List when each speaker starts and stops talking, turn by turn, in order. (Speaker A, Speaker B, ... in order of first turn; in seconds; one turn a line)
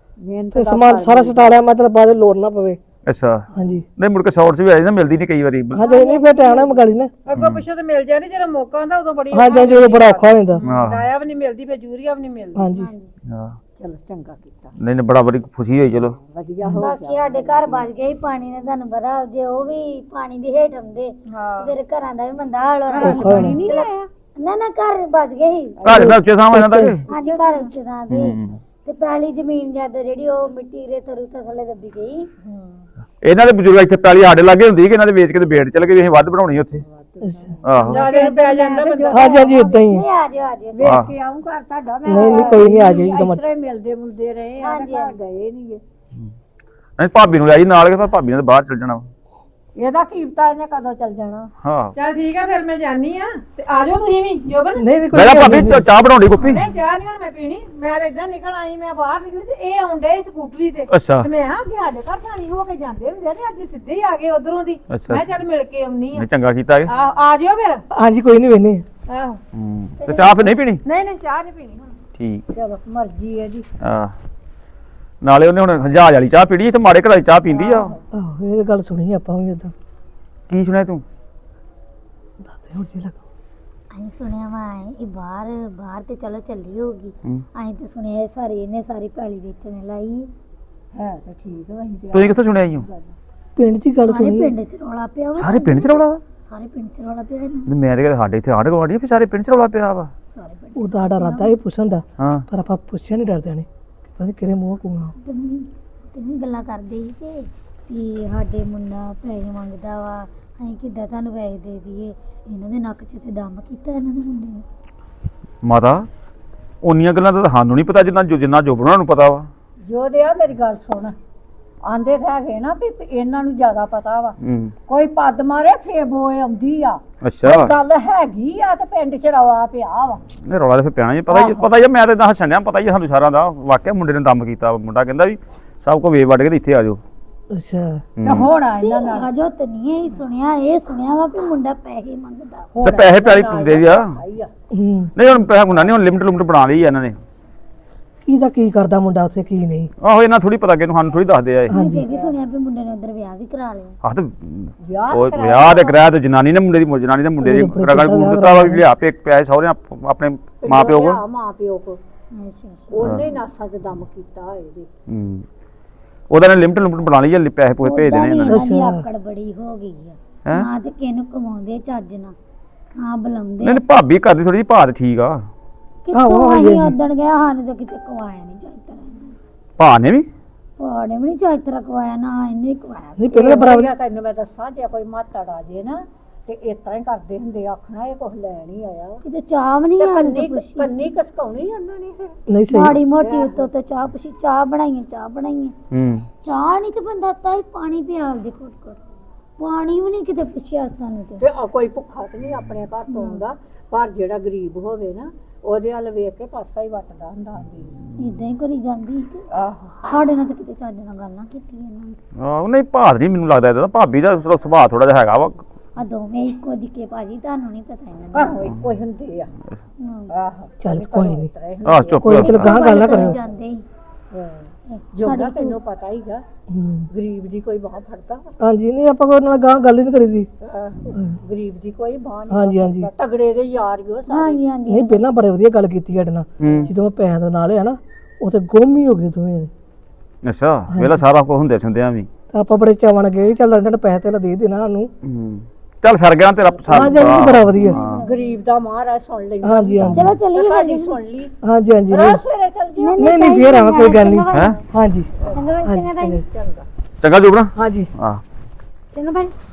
Speaker A: 0.2-1.5
Speaker B: 0.5-2.8
Speaker C: 3.1-5.9
Speaker B: 3.5-3.9
Speaker B: 5.7-7.1
Speaker D: 5.8-6.8
Speaker E: 7.3-12.7
Speaker C: 7.3-7.7
Speaker B: 9.3-10.6
Speaker C: 10.7-11.1
Speaker B: 12.6-12.9
Speaker D: 12.7-13.1
Speaker C: 13.3-13.6
Speaker A: 13.8-14.8
Speaker C: 14.8-16.2
Speaker A: 16.1-17.9
Speaker D: 16.8-25.9
Speaker E: 21.3-21.8
Speaker A: 22.9-24.1
Speaker E: 23.0-24.1
Speaker B: 23.0-23.6
Speaker A: 25.8-26.2
Speaker C: 25.9-27.0
Speaker B: 25.9-27.0
Speaker A: 27.1-27.7
Speaker D: 27.1-32.3
Speaker C: 28.1-28.6
Speaker C: 33.2-36.8
Speaker A: 36.8-39.9
Speaker B: 37.2-37.5
Speaker C: 37.6-38.0
Speaker E: 37.9-39.4
Speaker B: 39.1-40.1
Speaker D: 39.5-41.0
Speaker A: 40.7-45.8
Speaker C: 40.8-41.1
Speaker B: 42.1-43.4
Speaker D: 42.1-42.4
Speaker D: 44.6-45.1
Speaker C: 47.0-49.1
Speaker A: 49.8-51.5
Speaker C: 51.6-51.9
Speaker E: 52.0-54.9
Speaker B: 54.8-55.9
Speaker C: 55.1-56.6
Speaker E: 56.4-66.3
Speaker C: 60.9-61.3
Speaker C: 64.9-65.2
Speaker C: 66.2-66.9
Speaker E: 66.9-67.8
Speaker B: 67.9-68.8
Speaker E: 69.1-69.4
Speaker C: 69.5-70.8
Speaker E: 70.8-72.0
Speaker C: 72.2-72.5
Speaker A: 72.5-73.7
Speaker C: 73.8-74.1
Speaker C: 75.2-77.9
Speaker A: 77.5-78.0
Speaker B: 78.1-79.7
Speaker C: 80.5-81.0
Speaker B: 82.4-83.2
Speaker D: 83.9-90.3
Speaker A: 91.0-93.2
Speaker C: 92.1-92.8
Speaker B: 93.6-94.5
Speaker D: 94.1-97.7
Speaker C: 95.4-96.2
Speaker C: 97.7-100.1
Speaker D: 100.3-101.6
Speaker B: 100.8-105.1
Speaker C: 102.2-102.5
Speaker D: 105.2-114.7
Speaker C: 115.6-116.1
Speaker C: 116.8-119.5
Speaker A: 119.8-121.2
Speaker A: 121.8-124.4
Speaker C: 124.4-124.7
Speaker A: 124.9-130.2
Speaker C: 127.2-127.7
Speaker C: 130.4-137.0
Speaker A: 131.3-131.6
Speaker B: 137.5-138.1
Speaker C: 138.2-138.5
Speaker A: 138.2-139.3
Speaker D: 138.8-142.7
Speaker A: 142.7-144.5
Speaker C: 142.8-144.2
Speaker B: 144.7-145.1
Speaker C: 145.2-147.2
Speaker B: 148.2-149.9
Speaker C: 150.0-151.8
Speaker B: 151.7-152.1
Speaker D: 151.7-154.0
Speaker A: 151.9-152.4
Speaker C: 154.0-161.2
Speaker A: 154.8-156.0
Speaker B: 157.4-158.8
Speaker A: 160.6-162.0
Speaker D: 162.3-163.3
Speaker A: 162.9-164.9
Speaker C: 165.1-165.5
Speaker C: 166.3-168.7
Speaker D: 167.8-172.3
Speaker B: 168.5-169.0
Speaker D: 173.0-173.8
Speaker C: 173.6-175.5
Speaker D: 176.1-179.4
Speaker B: 176.1-176.9
Speaker C: 179.8-180.3
Speaker D: 180.8-183.2
Speaker B: 183.2-183.9
Speaker A: 183.3-189.2
Speaker D: 189.2-190.9
Speaker A: 190.0-192.4
Speaker B: 192.5-193.0
Speaker D: 192.7-195.8
Speaker A: 193.2-193.7
Speaker C: 195.9-196.3
Speaker D: 196.4-199.0
Speaker D: 199.6-201.4
Speaker A: 201.4-208.0
Speaker D: 203.1-203.4
Speaker D: 208.2-209.4
Speaker A: 209.5-209.9
Speaker D: 210.0-212.2
Speaker C: 212.4-215.6
Speaker D: 216.0-218.6
Speaker A: 218.3-219.5
Speaker D: 220.0-220.3
Speaker A: 220.3-222.4
Speaker B: 220.8-221.5
Speaker C: 221.8-222.8
Speaker B: 222.2-223.4
Speaker D: 222.4-223.8
Speaker A: 224.3-226.4
Speaker D: 224.9-225.8
Speaker B: 226.7-227.1
Speaker A: 227.1-228.5
Speaker B: 228.6-230.5
Speaker A: 230.6-234.6
Speaker B: 231.1-231.4
Speaker B: 232.5-233.1
Speaker D: 234.3-235.2
Speaker B: 234.9-239.7
Speaker C: 236.6-236.9
Speaker A: 236.7-236.9
Speaker C: 240.4-242.3
Speaker B: 240.9-241.2
Speaker B: 242.5-245.1
Speaker C: 245.2-248.2
Speaker A: 246.7-247.1
Speaker B: 246.9-248.0
Speaker D: 247.1-248.4
Speaker A: 248.2-251.5
Speaker B: 249.6-250.4
Speaker D: 250.1-251.2
Speaker B: 251.6-252.4
Speaker A: 252.1-253.3
Speaker D: 253.0-254.8
Speaker B: 253.2-255.3
Speaker C: 254.5-254.8
Speaker A: 255.4-255.6
Speaker D: 255.5-256.4
Speaker B: 255.8-256.4
Speaker A: 256.4-256.9
Speaker C: 257.2-258.4
Speaker B: 257.8-258.1
Speaker D: 259.1-259.5